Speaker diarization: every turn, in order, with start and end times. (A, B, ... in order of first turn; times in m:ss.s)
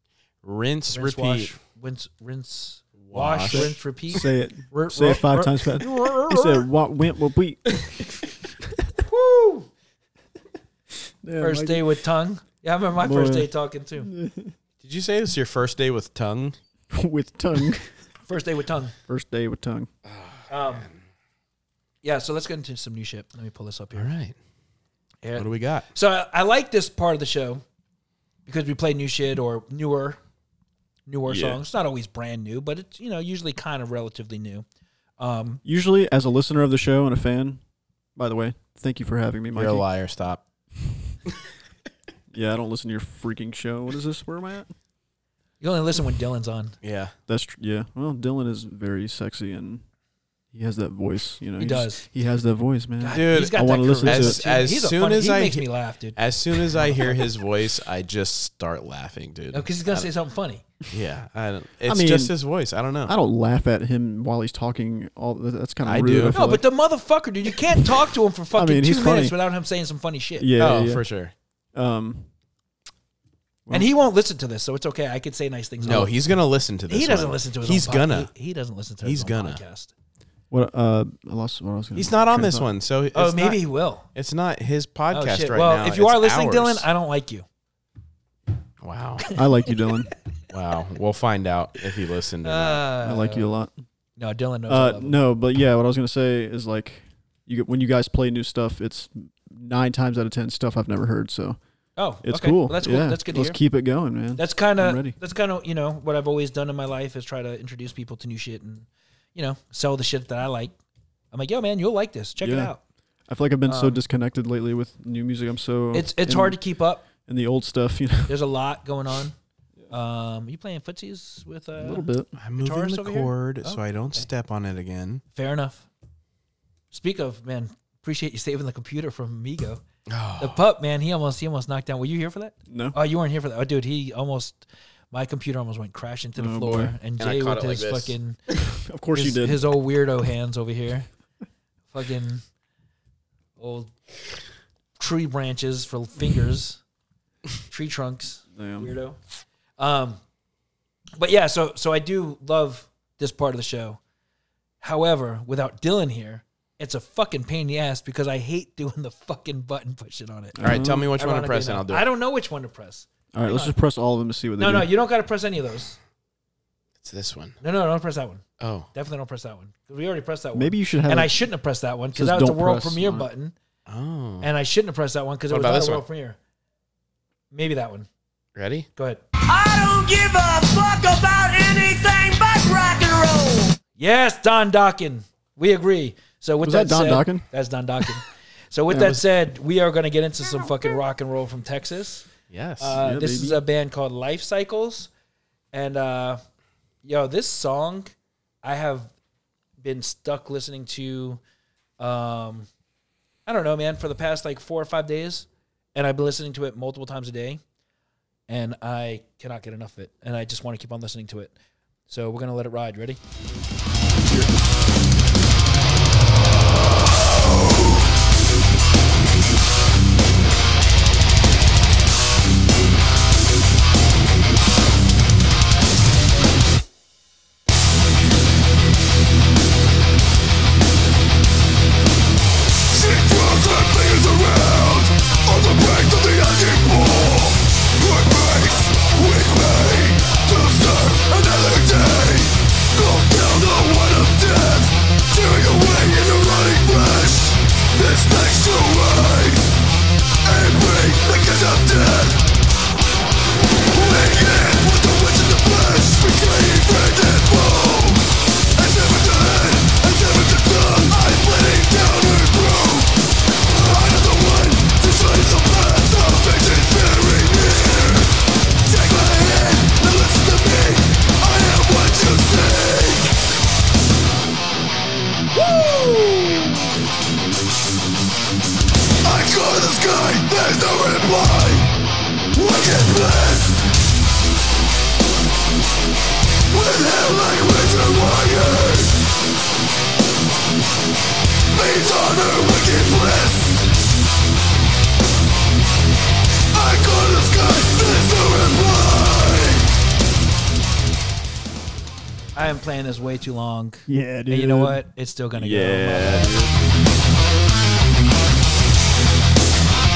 0:00.4-0:01.5 A
0:00.9-0:06.7 B
0:03.0-0:03.8 A
0:03.5-0:07.9 C
0:09.0-0:09.7 B
0:11.2-0:11.9 C
0:11.4-0:14.1 B
0:13.0-0:14.6 C
0:14.8-0:16.6 A
0:16.9-0:17.9 C
0:18.3-0:19.0 B
0:19.1-0:19.9 C
0:20.1-0:21.0 A
0:20.5-0:20.9 B
0:22.0-0:24.1 B
0:23.9-0:24.4 A
0:25.2-0:27.6 B
0:25.4-0:25.9 A
0:28.5-0:30.2 B
0:31.1-0:34.6 B
0:31.3-0:31.6 A
0:35.2-0:35.6 B
0:35.6-0:37.6 C
0:38.2-0:39.9 C
0:39.6-0:40.4 A
0:42.3-0:44.7 C
0:45.6-0:46.8 B
0:46.8-0:47.1 A
0:47.3-0:49.8 C
0:50.5-0:54.4 C
0:51.6-0:52.0 B
0:53.0-0:57.2 B
0:53.1-1:00.1 A
0:59.5-1:00.6 B
1:00.9-1:03.1 A
1:01.9-1:02.4 C
1:03.1-1:06.7 C
1:05.8-1:06.4 A
1:06.3-1:10.5 B
1:08.5-1:09.4 C
1:10.4-1:11.1 C
1:10.6-1:11.3 A
1:11.7-1:12.3 C
1:13.7-1:16.1 B
1:15.8-1:18.3 A
1:16.9-1:19.9 B
1:19.0-1:19.6 A
1:20.5-1:22.7 C
1:22.0-1:26.9 A
1:23.1-1:24.1 B
1:25.1-1:27.4 B
1:28.8-1:29.3 A
1:29.4-1:30.1 C
1:30.5-1:32.9 A
1:32.4-1:33.5 B
1:33.0-1:33.7 C
1:34.2-1:35.2 B
1:34.7-1:41.6 C
1:42.0-1:43.6 B
1:42.2-1:45.2 C
1:44.4-1:50.7 B
1:51.3-1:52.8 B
1:52.4-1:52.7 C
1:53.3-1:56.6 C
1:53.7-1:54.0 B
1:55.9-1:57.1 B
1:57.2-1:58.4 C
1:58.3-1:59.4 B
1:59.9-2:04.3 B
2:01.8-2:02.3 C
2:02.4-2:05.2 A
2:05.3-2:05.8 B
2:06.9-2:09.8 B
2:10.1-2:10.6 A
2:10.4-2:18.4 B
2:12.7-2:13.0 C
2:16.4-2:16.9 C
2:17.2-2:18.1 A
2:18.8-2:19.7 C
2:19.1-2:21.1 B
2:21.9-2:22.4 B
2:23.6-2:23.9 B
2:25.0-2:26.8 B
2:27.7-2:29.2 B
2:28.6-2:28.9 C
2:29.8-2:30.2 B
2:31.2-2:34.0 B
2:34.8-2:43.8 B
2:40.6-2:41.1 C
2:40.6-2:42.1 A
2:43.3-2:44.9 C
2:44.6-2:46.0 B
2:47.0-2:47.6 A
2:47.6-2:53.6 B
2:48.6-2:48.9 A
2:50.5-2:51.5 C
2:52.2-2:53.3 C
2:53.9-2:54.5 A
2:54.4-2:56.4 B
2:55.5-2:56.0 A
2:57.5-2:58.1 B
2:58.6-2:58.9 A
2:59.0-2:59.2 B
2:59.5-3:03.8 D
3:04.0-3:12.3 B
3:06.6-3:07.5 C
3:08.9-3:09.2 C
3:12.5-3:13.0 A
3:12.8-3:15.1 B
3:13.0-3:13.6 C
3:15.7-3:16.4 B
3:17.0-3:19.1 B
3:19.8-3:21.4 B
3:22.0-3:22.7 B
3:23.5-3:27.6 B
3:28.5-3:31.5 B
3:32.1-3:33.2 B
3:52.9-4:09.8 E
4:10.4-4:12.5 E
4:13.9-4:33.3 E
4:35.6-4:36.7 E
4:39.2-4:41.9 E
4:42.5-4:43.8 E
4:46.7-4:49.2 E
4:51.7-4:53.8 E
4:56.7-4:59.9 E
5:02.6-5:06.6 B
5:04.1-5:05.0 C
5:05.5-5:06.8 C